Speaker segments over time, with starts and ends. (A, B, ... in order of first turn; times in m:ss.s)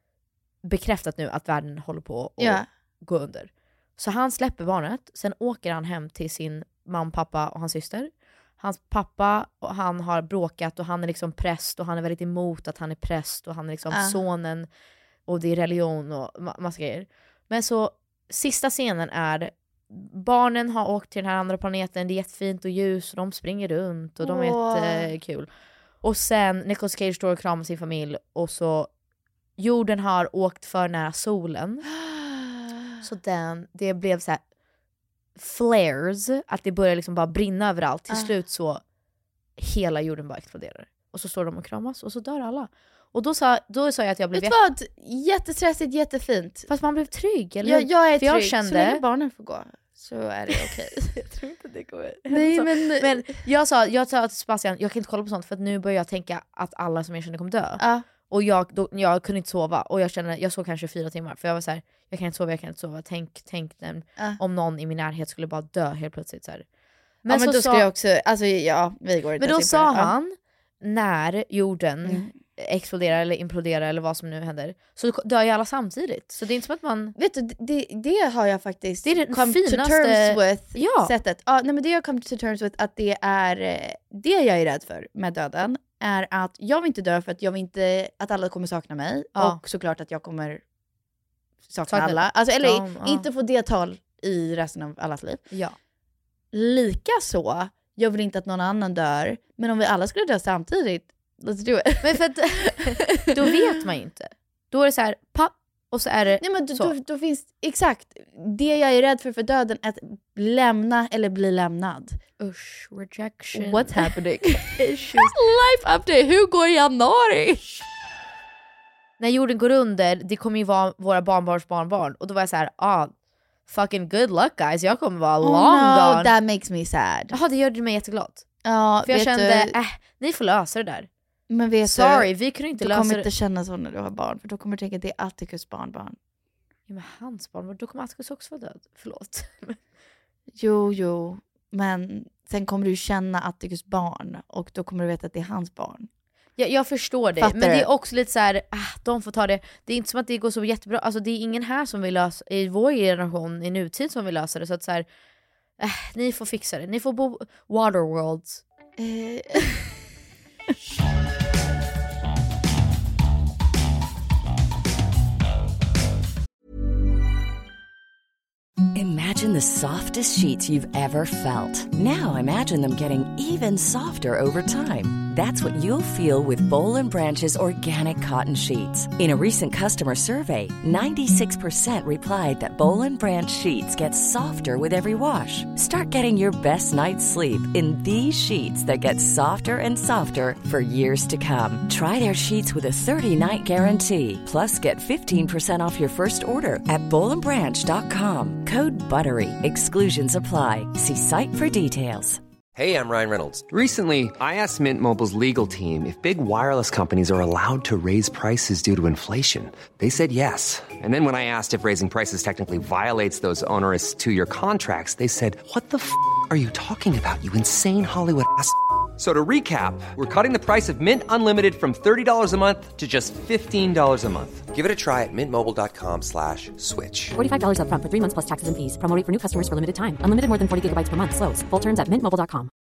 0:00.6-0:14.7 A
0:02.4-0:02.7 B
0:13.9-0:14.2 B
0:15.3-0:25.5 A
0:24.2-0:25.1 B
0:26.0-0:28.9 A
0:29.6-0:31.9 A
0:32.0-0:32.5 B
0:33.0-0:34.4 A
0:35.4-0:38.8 A
0:39.6-0:44.6 A
0:44.3-0:46.7 B
0:46.7-0:49.0 A
0:47.6-0:51.2 B
0:51.2-1:06.6 A
0:52.3-0:53.4 B
0:57.8-0:58.1 B
1:07.2-1:07.9 A
1:07.3-1:10.1 B
1:09.4-1:17.2 A
1:12.0-1:12.3 B
1:17.2-1:30.6 B
1:19.0-1:21.1 A
1:29.4-1:29.6 A
1:31.7-1:35.4 B
1:31.9-1:33.3 A
1:36.5-1:43.5 B
1:42.0-1:46.9 A
1:46.4-1:52.2 B
1:52.4-1:55.3 A
1:53.5-1:57.7 B
1:59.2-2:03.1 A
2:03.7-2:06.3 A
2:05.4-2:07.4 B
2:07.3-2:08.5 A
2:08.6-2:09.8 B
2:09.1-2:11.1 A
2:11.5-2:16.2 B
2:11.8-2:13.3 A
2:16.9-2:19.8 A
2:20.6-2:26.1 B
2:26.6-2:35.1 A
2:27.4-2:27.9 B
2:35.8-2:38.6 A
2:39.0-2:39.9 B
2:48.9-3:22.4 C
3:22.8-3:47.4 D
3:47.4-3:52.7 E